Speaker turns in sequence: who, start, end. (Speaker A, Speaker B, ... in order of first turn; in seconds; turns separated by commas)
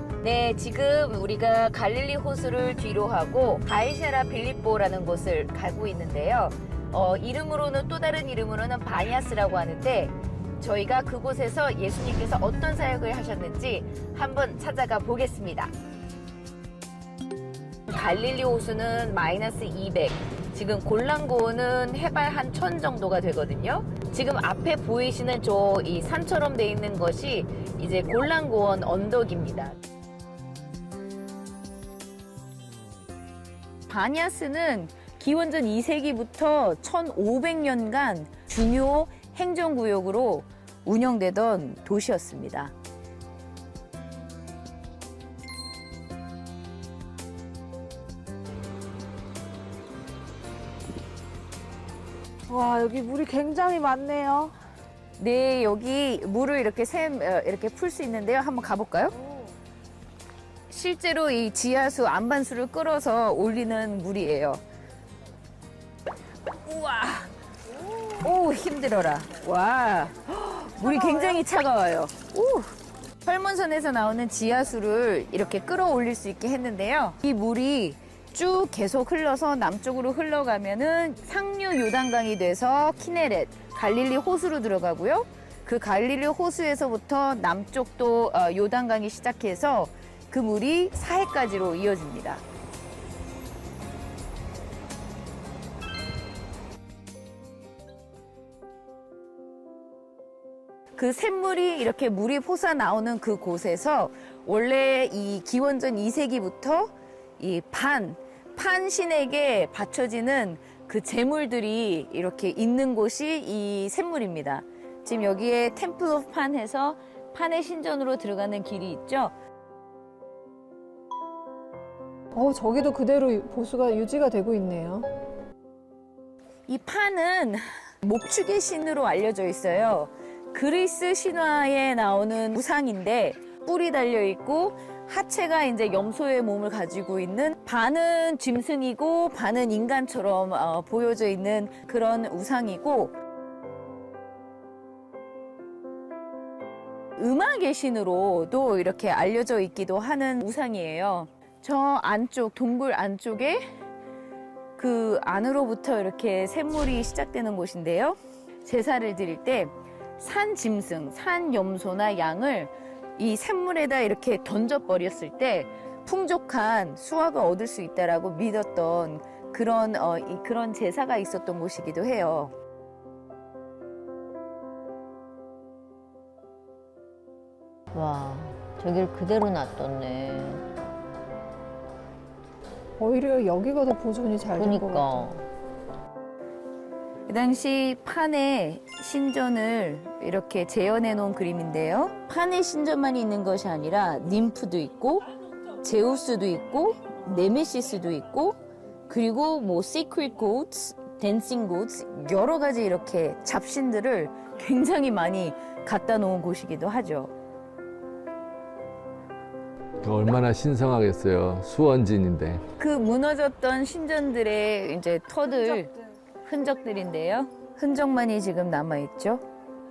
Speaker A: 0.2-15.7, Speaker A: 17.9-29.7, Speaker A: 33.9-42.7, Speaker B: 52.5-54.5, Speaker A: 55.2-59.1, Speaker A: 60.7-64.6, Speaker A: 66.6-67.3, Speaker A: 68.1-92.4, Speaker A: 101.0-119.3, Speaker C: 122.3-125.1, Speaker A: 126.7-143.1, Speaker A: 147.2-153.6, Speaker A: 154.8-172.5, Speaker D: 177.9-180.6, Speaker C: 183.0-185.4, Speaker D: 184.6-185.4, Speaker A: 187.3-195.3, Speaker A: 195.8-207.3, Speaker E: 210.0-212.6, Speaker A: 212.8-215.9, Speaker A: 216.4-219.4